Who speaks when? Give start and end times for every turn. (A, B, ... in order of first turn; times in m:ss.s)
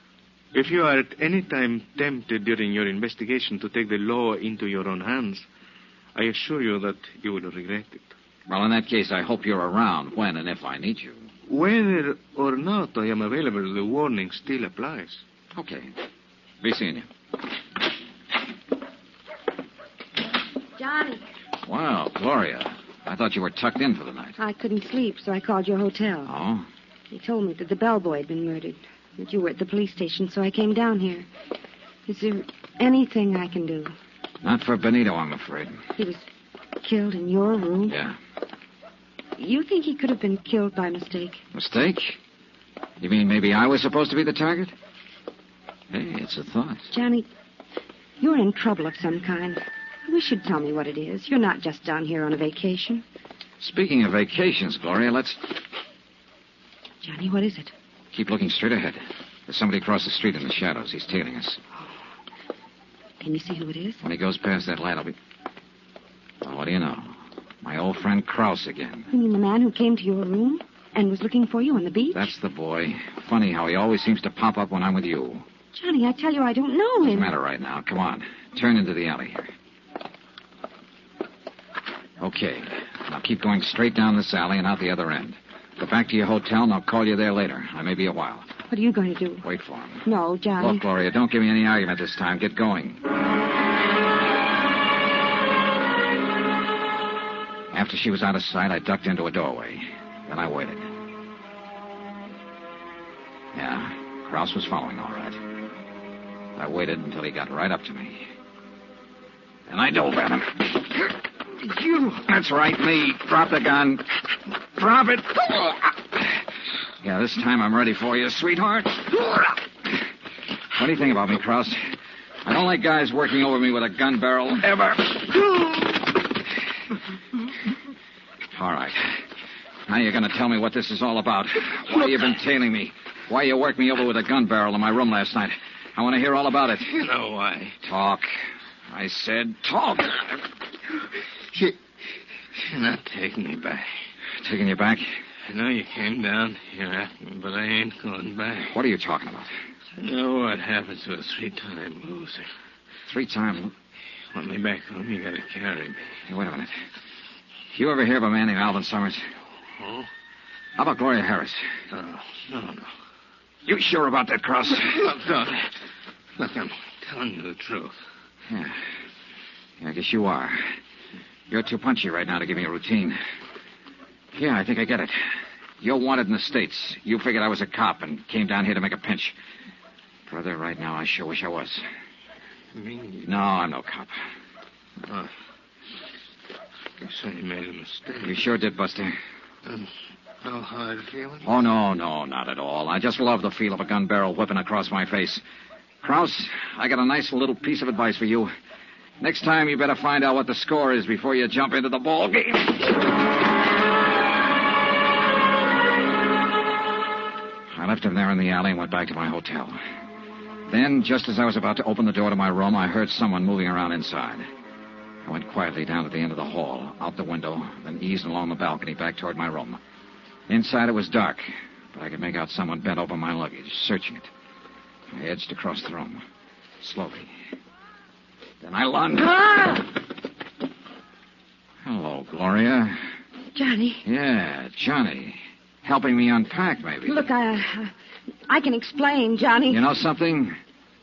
0:00.5-0:05.4 A
0:06.2-0:08.1 A
0:08.5-0:11.3 B
0:11.5-0:15.2 A
0:15.5-0:15.9 B
0:16.6-0:17.1 B
0:20.8-0:21.2 C
0:21.6-0:24.4 B
0:24.4-0:26.3 C
0:26.3-0:26.7 B
0:27.1-0:31.3 C
0:32.1-0:33.9 C
0:34.4-0:35.8 B
0:36.0-0:36.2 C
0:36.8-0:38.0 C
0:37.9-0:38.2 B
0:39.4-0:41.4 C
0:41.5-0:42.2 B
0:43.0-0:44.7 B
0:45.9-0:46.9 B
0:46.9-0:47.3 C
0:48.2-0:53.0 C
0:53.6-0:55.5 B
0:57.0-0:57.7 C
0:58.1-1:01.6 B
1:03.2-1:04.0 C
1:04.0-1:05.2 B
1:06.4-1:09.1 B
1:09.1-1:12.3 C
1:12.1-1:15.4 B
1:15.7-1:17.3 C
1:17.0-1:19.5 B
1:22.2-1:28.5 B
1:28.7-1:29.4 C
1:29.4-1:30.1 B
1:30.0-1:30.8 C
1:30.6-1:33.0 B
1:37.7-1:40.9 B
1:43.5-1:45.4 B
1:46.6-1:48.3 B
1:49.7-1:56.3 B
1:57.0-1:59.9 B
2:00.7-2:05.9 B
2:08.5-2:09.2 B
2:09.9-2:16.9 B
2:16.9-2:17.8 A
2:17.8-2:18.3 B
2:18.9-2:20.4 B
2:22.6-2:24.0 A
2:24.4-2:25.2 B
2:25.5-2:28.7 A
2:28.7-2:29.5 B
2:30.0-2:32.5 A
2:33.1-2:33.7 B
2:34.3-2:36.1 A
2:36.3-2:36.8 B
2:37.7-2:39.3 B
2:39.8-2:40.1 A
2:40.8-2:41.7 B
2:41.9-2:42.9 A
2:43.7-2:45.1 B
2:44.8-2:45.7 A
2:46.4-2:47.9 A
2:48.5-2:48.8 B
2:49.8-2:50.8 B
2:51.5-2:53.2 B
2:54.3-2:59.4 B
3:00.3-3:01.8 B
3:02.8-3:03.3 A
3:03.2-3:04.2 B
3:07.0-3:08.4 A
3:08.2-3:09.2 B
3:09.7-3:09.9 A
3:10.4-3:11.5 A
3:11.4-3:15.4 B
3:16.0-3:18.5 B
3:19.2-3:23.0 B
3:27.7-3:29.8 B
3:30.7-3:34.5 B
3:35.2-3:39.8 B
3:40.5-3:44.3 B
3:45.1-3:46.2 B
3:46.8-3:47.3 B
3:48.6-3:49.9 B
3:51.8-3:53.0 B
3:53.6-3:54.0 C
3:54.0-3:57.3 B
3:57.1-3:57.9 C
3:58.5-3:59.8 C
3:59.7-4:00.6 B